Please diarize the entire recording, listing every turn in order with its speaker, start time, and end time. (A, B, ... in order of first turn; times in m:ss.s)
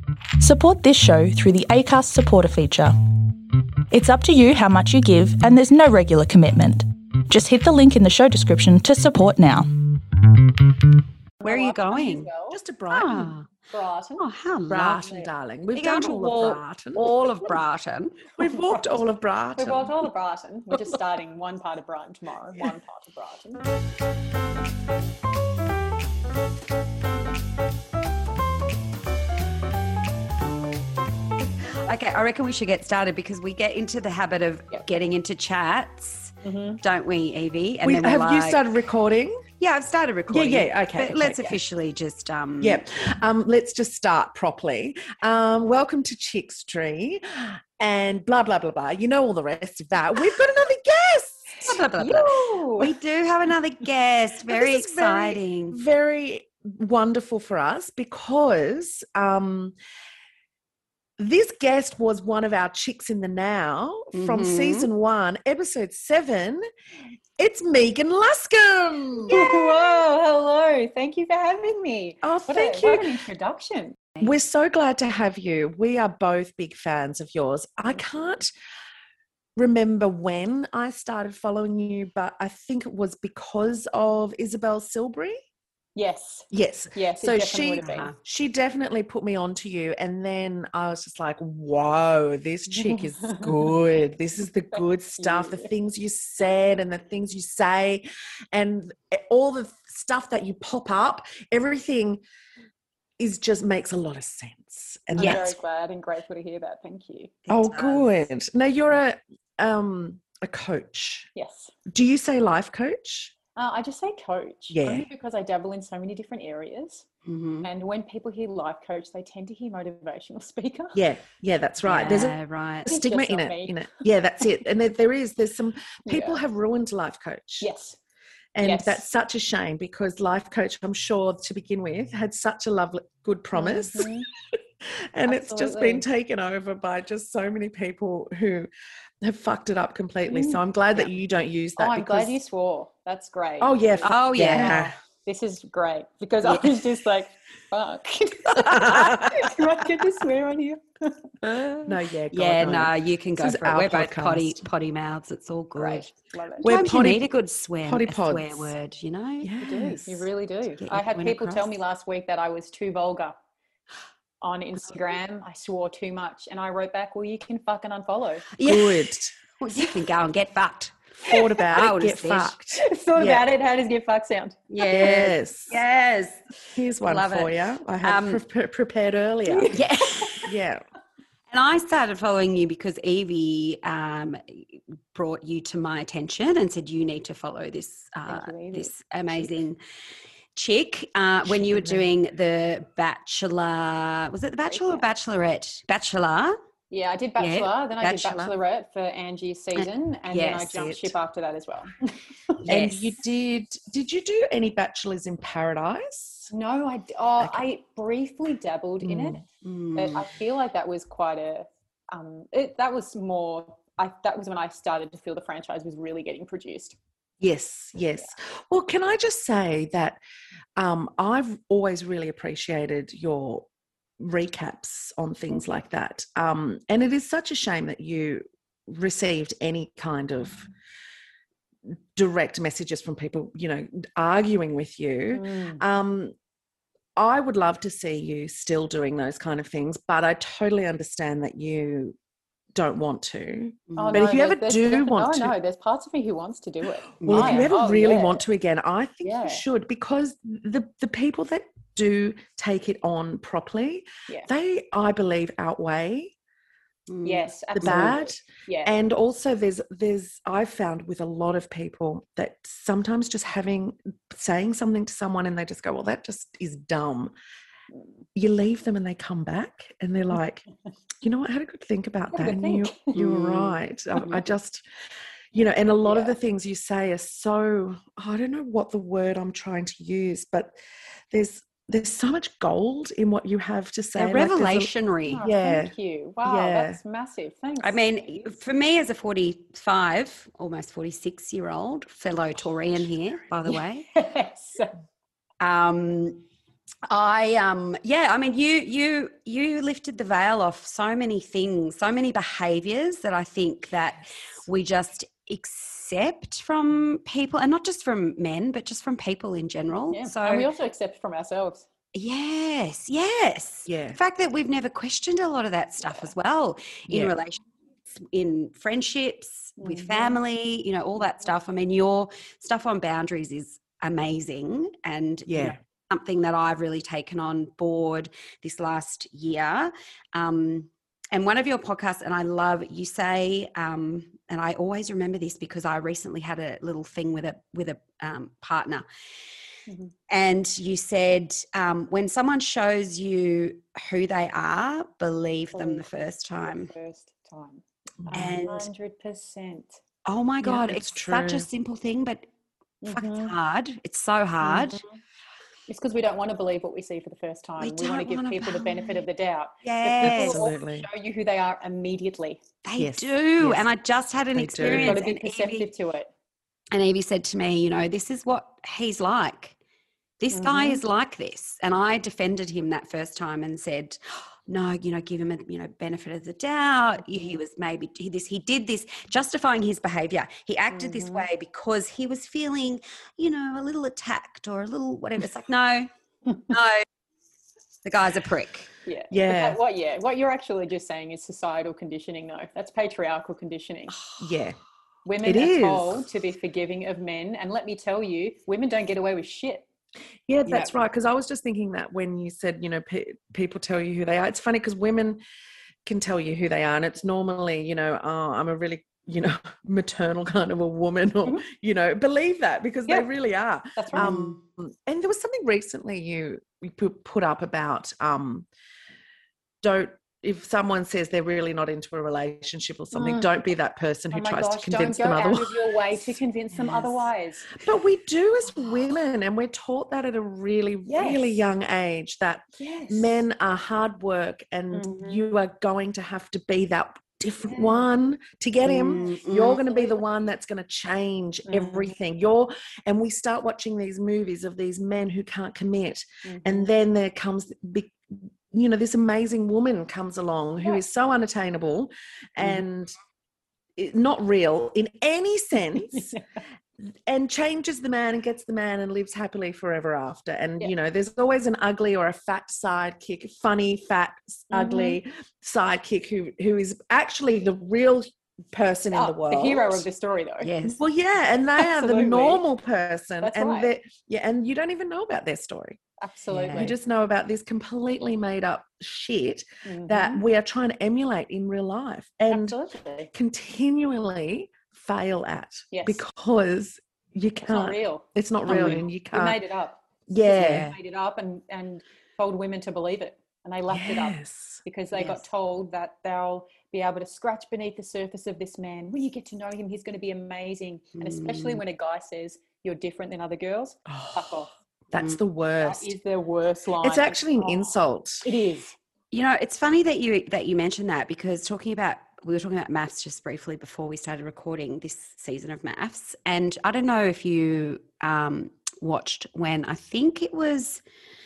0:00.4-0:02.9 A
0:03.9-0:09.7 A
0:11.4-0:12.6 B
0:11.4-0:12.3 C
0:12.5-0:13.3 D
0:12.9-0:13.5 C
0:13.7-0:14.2 B
0:14.2-0:18.2 C
0:14.7-0:17.2 D
0:18.4-0:19.9 D
0:18.4-0:19.0 B
0:19.6-0:23.6 B
0:31.8-0:38.6 C
0:36.4-0:36.8 B
0:37.8-0:39.4 D
0:39.6-0:42.8 C
0:40.3-0:41.6 D
0:42.6-0:51.8 D
0:51.6-0:55.8 C
0:52.0-0:52.9 B
0:54.5-0:59.8 D
1:01.2-1:06.6 D
1:04.1-1:04.9 C
1:07.4-1:09.8 D
1:09.3-1:14.0 B
1:12.2-1:13.2 D
1:14.2-1:18.5 D
1:19.6-1:25.4 D
1:26.0-1:28.1 B
1:26.5-1:42.2 D
1:27.8-1:28.1 C
1:32.7-1:33.7 B
1:34.7-1:35.7 B
1:43.2-1:45.5 D
1:45.1-1:45.5 C
1:45.2-1:47.4 B
1:47.5-1:48.2 C
1:47.5-1:51.3 D
1:51.3-1:51.7 B
1:51.9-1:53.3 D
1:53.6-1:57.0 B
1:54.7-1:55.1 D
1:57.2-1:57.7 C
1:57.6-2:01.0 B
2:00.9-2:07.7 D
2:01.8-2:02.9 C
2:02.8-2:03.8 B
2:06.0-2:06.4 B
2:07.6-2:08.0 B
2:08.5-2:14.1 D
2:08.6-2:09.0 B
2:13.5-2:14.2 B
2:14.8-2:18.7 D
2:15.2-2:16.0 B
2:19.2-2:22.3 D
2:20.3-2:20.6 B
2:21.8-2:31.3 B
2:23.6-2:24.9 D
2:24.0-2:24.8 C
2:26.4-2:26.8 C
2:28.6-2:29.5 D
2:31.4-2:36.1 C
2:31.8-2:34.6 D
2:35.8-2:36.7 B
2:36.6-2:39.5 C
2:36.6-2:37.3 D
2:37.8-2:38.7 D
2:39.4-2:40.2 D
2:39.6-2:43.4 B
2:40.8-2:41.7 C
2:44.4-2:48.5 B
2:48.5-2:52.6 C
2:48.6-2:49.4 D
2:51.2-2:53.5 D
2:52.8-2:55.0 B
2:54.7-2:56.4 C
2:54.8-2:55.8 D
2:56.7-2:59.8 D
2:57.0-2:58.4 C
2:59.5-3:00.5 B
2:59.7-3:00.5 C
3:00.4-3:00.8 D
3:01.5-3:09.8 C
3:08.3-3:08.9 B
3:10.5-3:16.6 C
3:11.5-3:12.1 D
3:14.7-3:15.1 B
3:16.9-3:22.6 B
3:17.4-3:18.5 C
3:19.8-3:21.0 C
3:22.6-3:23.1 C
3:22.7-3:26.5 D
3:26.5-3:29.4 B
3:27.4-3:27.6 D
3:29.0-3:29.4 D
3:29.6-3:30.3 C
3:29.9-3:37.0 B
3:37.4-3:40.2 D
3:40.8-3:43.6 D
3:44.2-3:50.7 D
3:51.9-3:56.3 D
3:55.3-3:55.8 B
3:57.2-4:02.2 D
4:02.7-4:05.5 D
4:03.9-4:04.2 C
4:04.0-4:08.4 B
4:07.2-4:07.7 C
4:07.2-4:16.3 D
4:09.2-4:09.6 B
4:17.1-4:18.2 C
4:17.2-4:19.0 B
4:17.8-4:27.3 D
4:28.3-4:30.6 D
4:31.2-4:34.8 D
4:32.3-4:33.1 B
4:33.1-4:34.3 C
4:35.5-4:40.8 D
4:36.0-4:36.3 B
4:41.3-4:44.9 D
4:44.2-4:45.4 C
4:45.3-4:48.0 B
4:45.4-4:45.9 D
4:46.4-4:47.0 D
4:47.8-4:54.1 C
4:52.6-4:53.1 D
4:53.7-4:54.9 B
4:55.6-4:56.4 C
4:57.1-5:10.7 C
5:10.1-5:11.8 B
5:12.1-5:17.6 C
5:13.9-5:14.2 D
5:17.1-5:17.3 D
5:18.2-5:39.0 C
5:19.8-5:20.4 B
5:25.4-5:25.8 D
5:39.9-5:40.1 B
5:40.3-5:46.9 C
5:45.7-5:46.0 B
5:46.6-5:50.0 B
5:48.3-5:48.9 C
5:50.2-5:52.4 C
5:50.6-5:51.7 D
5:53.0-5:53.5 B
5:53.1-5:55.0 C
5:54.6-5:55.2 B
5:55.9-6:02.6 B
5:57.8-5:59.2 C
5:59.8-6:00.6 C
6:00.2-6:01.1 D
6:02.8-6:05.9 C
6:03.0-6:03.9 D
6:04.5-6:05.2 D
6:04.8-6:06.3 B
6:06.9-6:09.8 C
6:10.4-6:26.1 C
6:10.5-6:11.0 B
6:20.9-6:21.4 B
6:26.7-6:27.0 C
6:28.0-6:28.9 C
6:29.0-6:34.2 B
6:29.3-6:29.8 D
6:34.4-6:34.8 D
6:35.2-6:39.8 B
6:35.4-6:36.3 D
6:40.5-6:45.4 D
6:40.6-6:40.9 B
6:46.0-6:58.7 D
6:53.9-6:54.4 B
6:54.1-6:54.6 C
6:59.8-7:06.0 D
7:03.1-7:03.5 B
7:04.3-7:07.8 B
7:06.8-7:07.1 C
7:07.8-7:33.1 D
7:11.1-7:11.6 B
7:12.8-7:13.4 B
7:14.9-7:15.5 B
7:17.6-7:18.1 B
7:18.8-7:19.8 C
7:19.0-7:20.3 B
7:21.6-7:22.1 B
7:26.4-7:26.9 B
7:34.0-7:36.3 D
7:36.1-7:36.4 B
7:37.0-7:50.0 D
7:44.7-7:45.2 B
7:49.1-7:50.7 B
7:50.6-7:51.0 C
7:50.8-7:56.0 D
7:51.8-7:52.6 B
7:53.4-7:53.9 B
7:56.2-7:56.9 B
7:56.5-7:56.9 C
7:56.7-8:02.8 D
7:59.8-8:00.4 B
8:02.5-8:03.3 B
8:03.3-8:09.6 D
8:05.9-8:06.2 B
8:07.6-8:24.7 B
8:08.7-8:09.0 C
8:10.3-8:10.9 D
8:10.5-8:10.9 C
8:13.9-8:14.8 D
8:15.1-8:15.4 C
8:21.2-8:21.8 C
8:24.0-8:24.6 D
8:25.1-8:26.1 D
8:25.2-8:25.4 C
8:25.8-8:28.9 B
8:27.0-8:28.4 D
8:29.3-8:41.0 C